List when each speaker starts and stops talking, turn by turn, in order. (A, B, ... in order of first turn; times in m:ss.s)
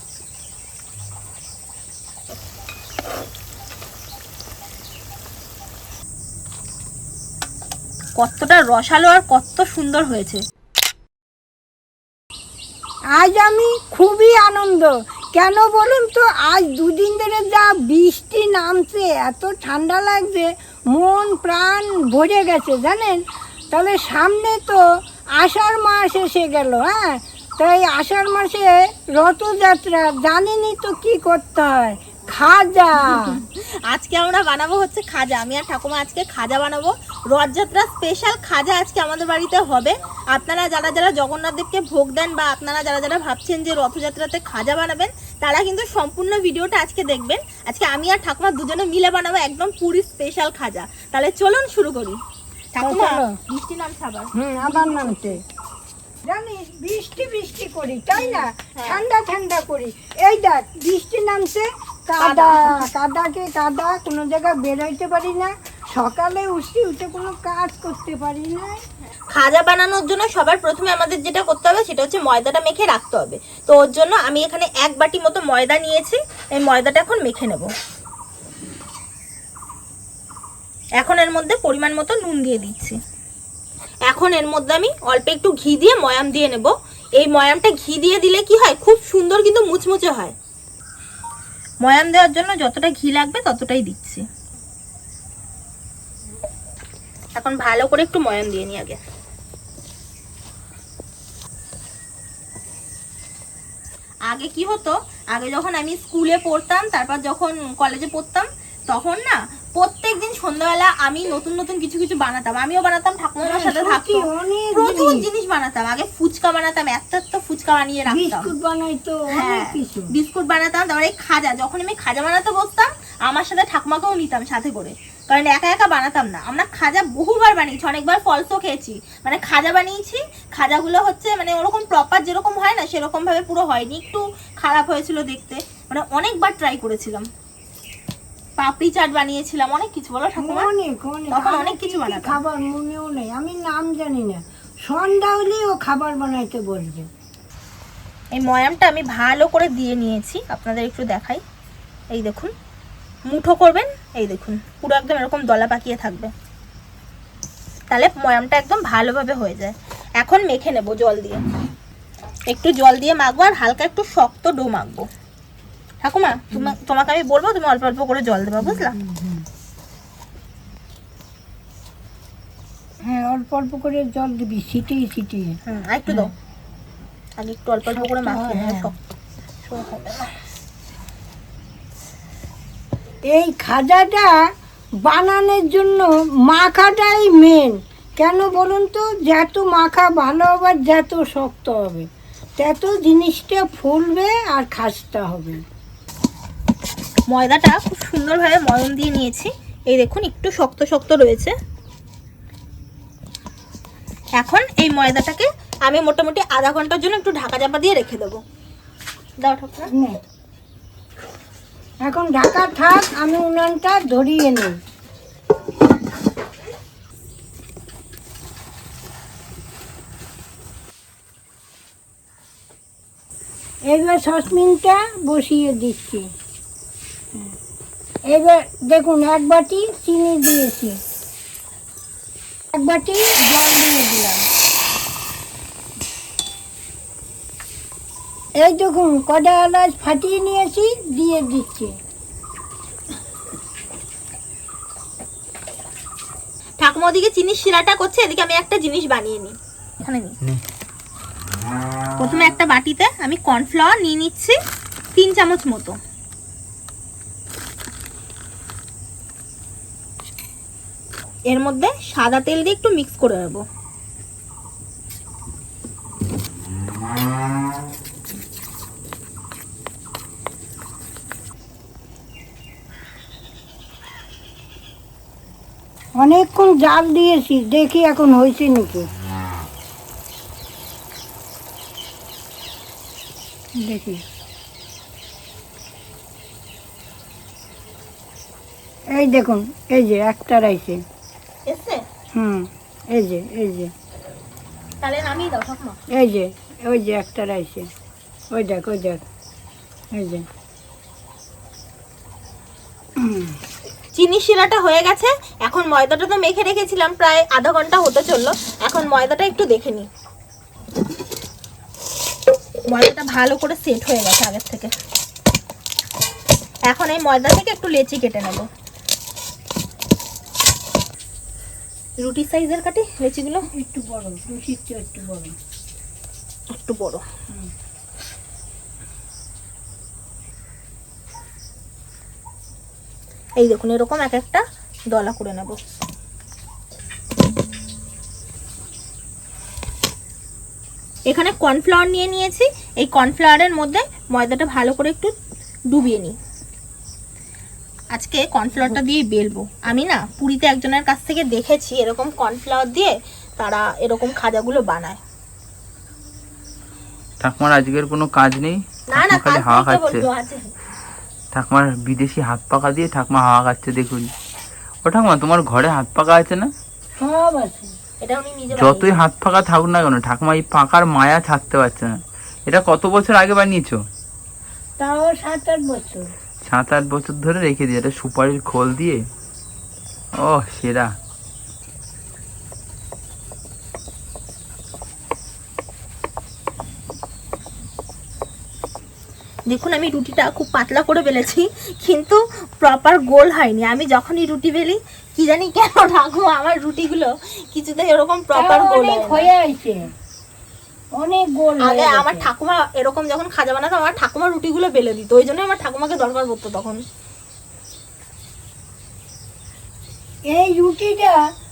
0:08.2-0:10.4 A
0:13.2-0:23.2 B
0:23.7-0:24.8 B
0:25.4-0:33.3 B
0:33.0-0:52.2 A
0:52.7-0:55.3 A
0:52.8-0:53.3 B
0:54.4-0:55.4 B
0:56.3-1:08.8 B
0:58.1-0:59.0 A
1:02.2-1:02.9 A
1:09.3-1:17.7 A
1:21.0-1:23.0 A
1:24.1-1:30.3 A
1:31.8-1:34.2 A
1:37.4-1:39.0 A
1:44.3-1:58.5 A
1:53.4-1:55.2 B
1:58.1-2:00.1 B
1:59.3-2:17.3 A
2:18.6-2:20.7 A
2:20.4-2:27.1 B
2:21.3-2:22.4 A
2:28.4-2:31.4 A
2:32.1-2:32.5 A
2:33.3-2:36.3 A
2:37.9-2:41.4 A
2:42.5-2:45.0 A
2:46.0-2:49.0 A
2:48.6-2:49.4 B
2:53.0-2:55.6 B
2:55.7-2:56.3 A
2:57.4-2:59.0 A
2:57.9-2:58.9 B
2:59.6-3:00.3 A
3:03.3-3:04.3 B
3:05.0-3:12.0 B
3:12.6-3:15.6 B
3:17.3-3:21.5 A
3:24.4-3:28.4 A
3:29.4-3:29.9 A
3:32.0-3:34.7 B
3:43.9-3:46.2 B
3:48.3-3:51.0 B
3:52.7-3:54.4 B
3:58.6-4:01.9 B
4:06.8-4:10.4 A
4:12.2-4:14.6 A
4:15.2-4:16.0 A
4:21.5-4:23.6 A
4:36.2-4:39.0 B
4:43.8-4:44.2 B
4:49.2-4:51.0 B
4:51.6-4:52.0 A
4:52.3-4:53.9 B
4:55.0-4:56.0 A
4:56.1-4:57.8 B
4:58.5-4:59.2 B
5:00.2-5:00.4 B
5:03.2-5:03.5 B
5:04.1-5:10.1 A
5:12.9-5:14.9 A
5:16.9-5:18.6 A
5:22.2-5:23.6 A
5:23.8-5:25.5 B
5:26.7-5:27.2 A
5:33.6-5:35.8 A
5:41.3-5:45.3 A
5:45.9-5:46.4 A
5:48.1-5:55.2 A
5:57.4-6:00.2 C
5:59.1-6:00.7 A
6:01.5-6:04.3 C
6:05.0-6:06.7 C
6:07.2-6:07.9 B
6:08.2-6:09.2 A
6:08.7-6:12.2 C
6:12.7-6:14.0 C
6:15.0-6:16.2 B
6:16.6-6:19.2 C
6:20.4-6:21.1 C
6:29.7-6:39.5 A
6:38.5-6:40.0 B
6:41.2-6:42.5 B
6:41.8-6:47.0 A
6:50.5-6:51.4 B